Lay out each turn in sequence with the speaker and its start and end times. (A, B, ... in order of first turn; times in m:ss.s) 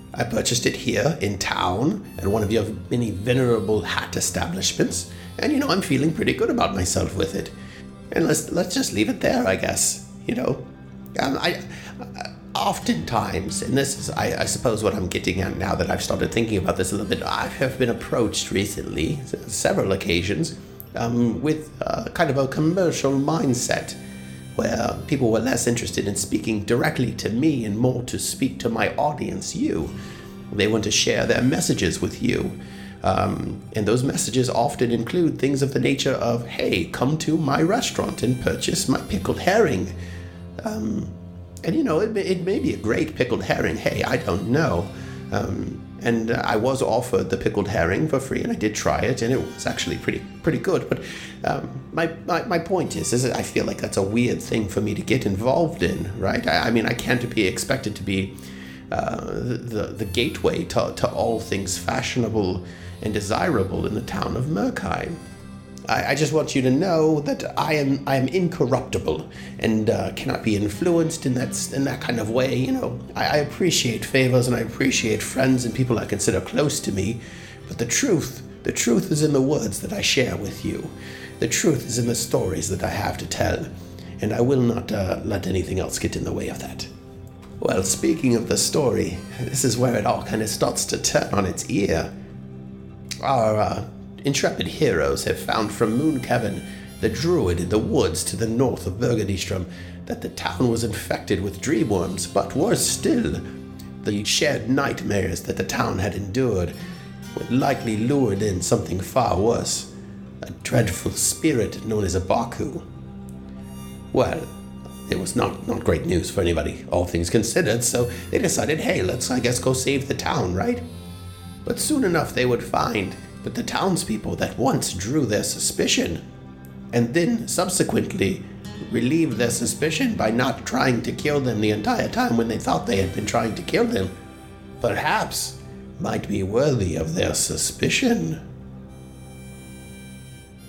0:00.1-0:07.5 A
0:08.1-0:24.0 A
0:24.6-0:29.9 A
0:30.5-0:39.9 A
0:40.6-0:58.3 A
0:58.9-1:05.2 A
1:05.8-1:26.9 A
1:27.6-1:32.1 A
1:33.2-1:43.5 A
1:44.0-1:46.8 A
1:47.4-1:49.9 A
1:50.4-1:52.8 A
1:54.1-1:54.5 A
1:55.1-2:00.8 A
2:01.6-2:06.2 A
2:06.9-2:14.1 A
2:14.8-2:18.4 A